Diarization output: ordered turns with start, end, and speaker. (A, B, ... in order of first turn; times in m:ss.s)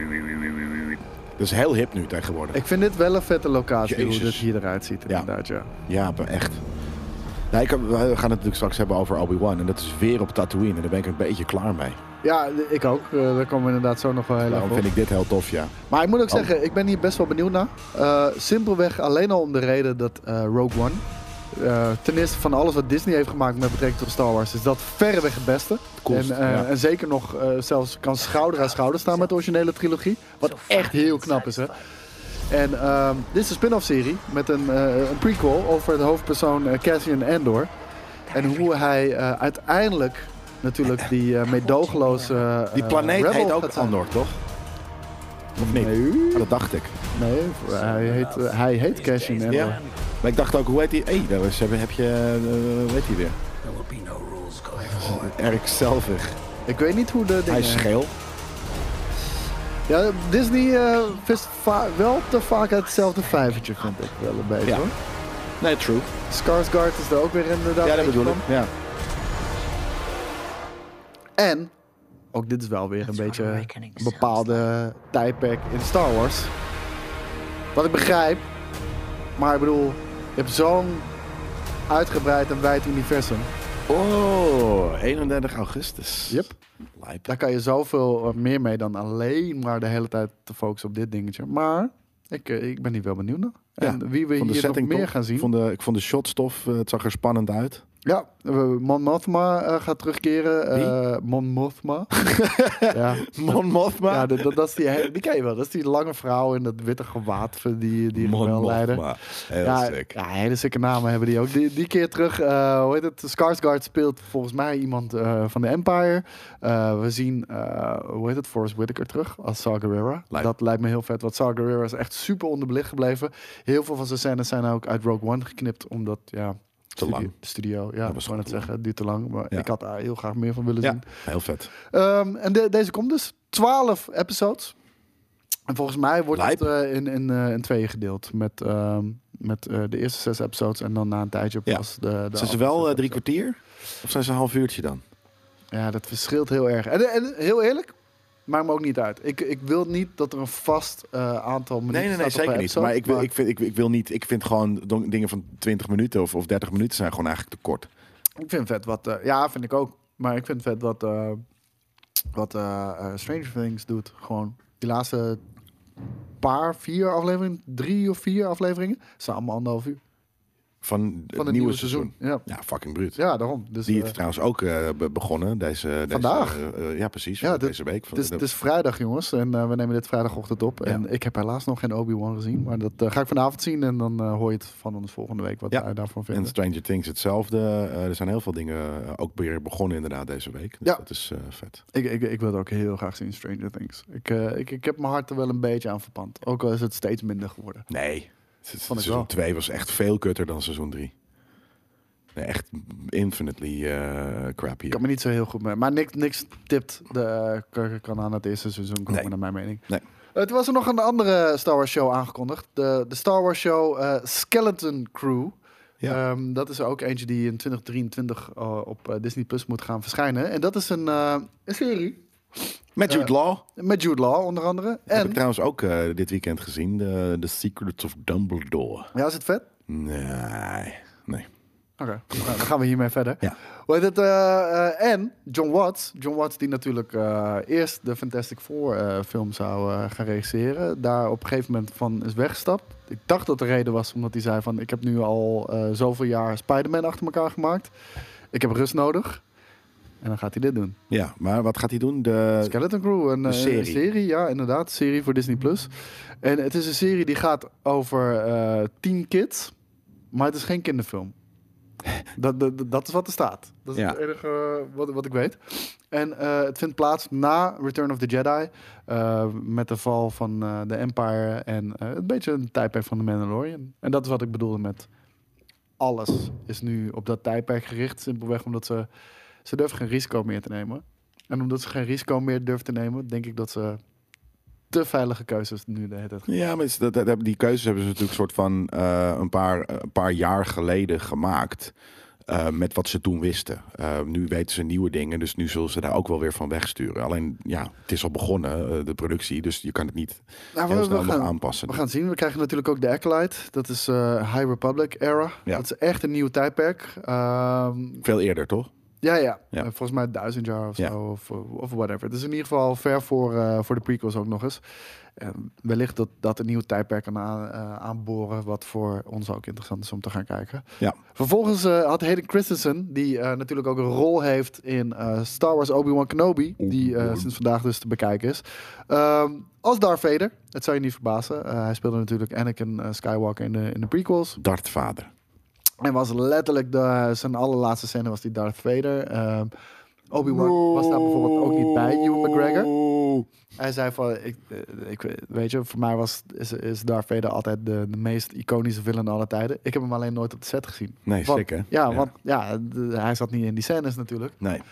0:01.4-0:02.6 A
0:02.5-0:05.7 B
0:03.8-0:04.5 A
0:05.9-0:06.6 A
0:07.5-0:12.0 A
0:12.2-0:14.9 B
0:14.5-0:15.7 A
0:15.9-0:31.8 B
0:26.0-0:26.7 A
0:30.6-0:31.6 C
0:32.5-0:37.7 B
0:38.3-0:44.0 B
0:41.9-0:42.4 C
0:42.7-0:44.4 A
0:45.6-0:47.0 A
0:45.6-0:46.6 B
0:47.1-0:49.8 B
0:47.7-0:50.1 C
0:49.5-0:53.4 A
0:53.6-0:55.4 C
0:55.0-0:56.4 A
0:56.7-0:57.9 B
0:57.5-0:58.2 A
0:59.9-1:04.9 B
1:05.6-1:06.1 A
1:06.3-1:08.5 B
1:07.8-1:08.7 A
1:11.4-1:11.7 B
1:12.3-1:16.5 B
1:13.1-1:14.5 C
1:17.8-1:18.5 B
1:19.4-1:21.1 B
1:21.9-1:23.5 B
1:23.9-1:27.3 A
1:26.3-1:26.6 B
1:27.3-1:35.5 B
1:33.8-1:37.8 A
1:38.0-2:11.1 B
1:42.2-1:44.6 A
1:48.2-1:50.2 A
2:07.0-2:07.3 A
2:08.0-2:08.7 A
2:10.8-2:11.7 A
2:11.9-2:14.8 B
2:15.7-2:23.2 B
2:16.3-2:16.7 A
2:22.4-2:25.0 A
2:25.7-2:28.0 B
2:28.5-2:33.3 B
2:31.9-2:37.9 A
2:38.4-2:41.4 B
2:42.3-2:45.4 B
2:46.4-2:50.0 B
2:50.8-2:53.2 A
2:51.4-2:52.5 B
2:53.2-2:54.2 B
2:53.9-2:58.4 A
2:56.1-2:56.6 B
2:57.4-3:06.6 B
3:05.7-3:11.8 A
3:11.9-3:17.9 B
3:17.9-3:21.1 A
3:18.9-3:19.3 B
3:22.4-3:25.0 A
3:24.9-3:29.8 B
3:30.4-3:42.2 B
3:43.0-3:43.6 A
3:43.1-3:45.4 B
3:45.1-3:49.1 A
3:49.1-3:49.7 B
3:49.9-3:51.5 A
3:52.0-4:07.9 B
4:08.5-4:09.4 B
4:10.2-4:11.0 B
4:11.1-4:12.8 A
4:12.6-4:15.9 B
4:13.4-4:14.0 A
4:16.4-4:19.7 B
4:20.3-4:21.4 B
4:22.3-4:35.1 B
4:36.0-4:39.1 B
4:39.6-4:44.0 B
4:44.9-4:46.5 B
4:46.5-4:51.9 A
4:52.5-5:02.0 A
5:00.7-5:08.2 B
5:08.2-5:08.9 A
5:09.2-5:14.8 B
5:15.4-5:34.6 B
5:26.8-5:27.5 A
5:34.6-5:35.3 A
5:36.0-5:39.7 B
5:40.3-5:42.9 B
5:40.5-5:43.5 A
5:43.8-5:54.6 B
5:51.3-5:52.3 A